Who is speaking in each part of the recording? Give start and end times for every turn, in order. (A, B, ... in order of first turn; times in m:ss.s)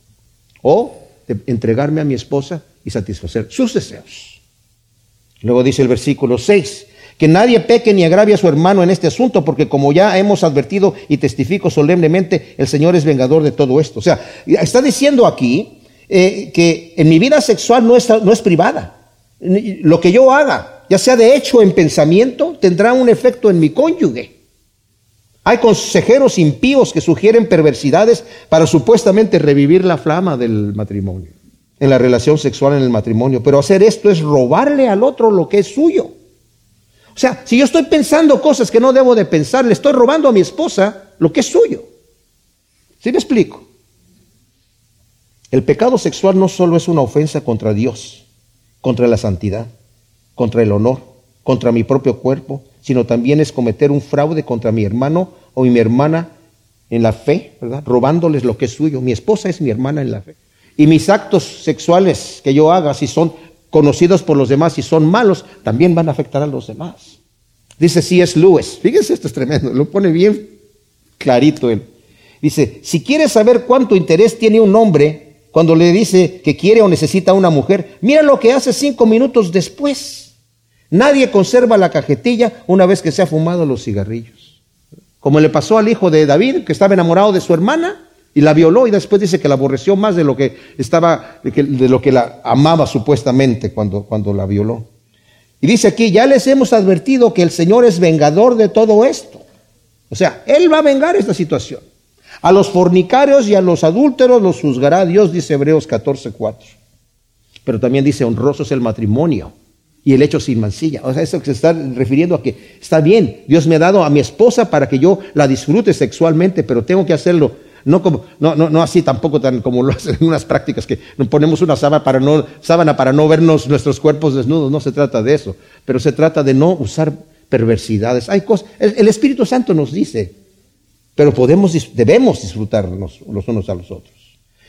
0:00.6-0:04.4 A
0:05.4-0:24.3 A
0:25.4-0:36.1 A
0:37.1-0:41.9 A
0:43.0-0:43.6 A
0:45.5-0:48.2 A
0:48.8-0:49.7 A
0:50.4-0:56.3 A
0:56.9-1:07.2 A
1:07.8-1:10.5 A
1:11.2-1:11.8 A
1:12.4-1:20.3 A
1:20.9-1:24.6 A
1:25.2-1:34.9 A
1:35.6-1:39.4 A
1:40.1-1:41.8 A
1:42.4-1:46.8 A
1:47.6-1:49.5 A
1:50.0-2:10.3 A
2:11.2-2:14.3 A